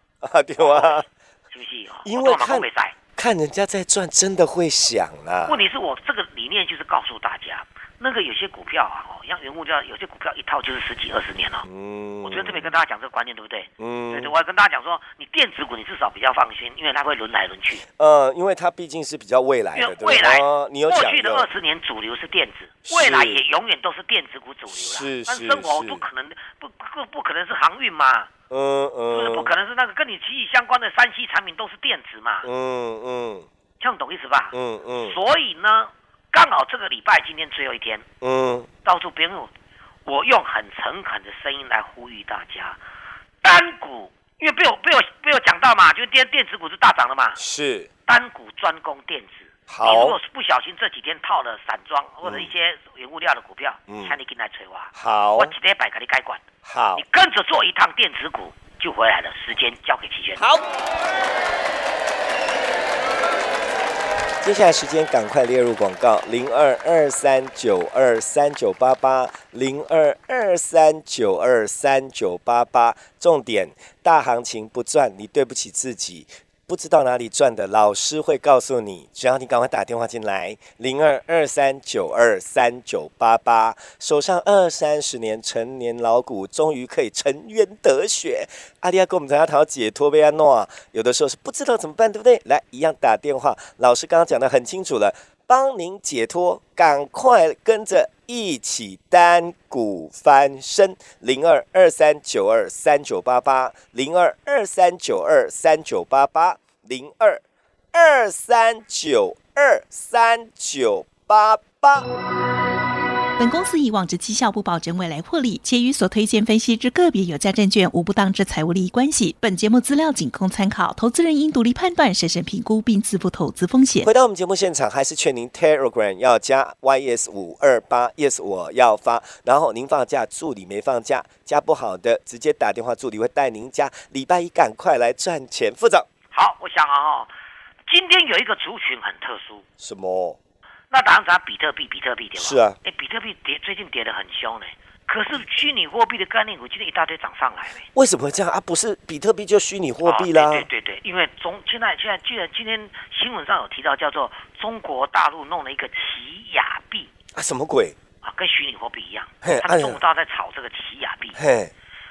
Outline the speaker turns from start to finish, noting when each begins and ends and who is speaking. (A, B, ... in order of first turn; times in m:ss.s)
0:00.2-0:01.1 A
0:00.6-0:03.0 B
0:02.0-0:05.6 A
0:05.5-0:11.7 B
0:11.6-0:12.8 A
0:12.2-0:17.8 B
0:13.8-0:14.3 A
0:17.9-0:21.5 A
0:19.8-0:28.3 B
0:22.9-0:23.4 A
0:24.7-0:26.0 A
0:28.5-0:29.5 A
0:29.1-0:32.5 B
0:32.4-0:33.5 A
0:33.8-0:38.1 B
0:34.5-0:35.2 A
0:38.2-0:38.7 A
0:38.8-0:39.5 B
0:40.0-0:42.8 B
0:43.4-0:47.4 B
0:47.4-0:47.9 A
0:48.1-0:56.4 B
0:49.7-0:50.2 A
0:52.2-0:52.5 A
0:53.9-0:54.2 A
0:54.9-0:55.5 A
0:56.6-0:57.0 A
0:57.0-1:00.5 B
1:00.4-1:00.7 A
1:04.4-1:52.1 A
1:53.4-2:04.1 C
2:04.0-2:16.1 A
2:16.3-2:17.3 B
2:17.9-2:19.7 B
2:19.8-2:20.4 A
2:20.9-2:27.9 B
2:22.4-2:22.8 A
2:28.0-2:30.7 A
2:30.0-2:37.1 B
2:37.3-2:38.0 A
2:38.2-2:41.4 B
2:39.4-2:40.0 A
2:41.4-2:41.7 A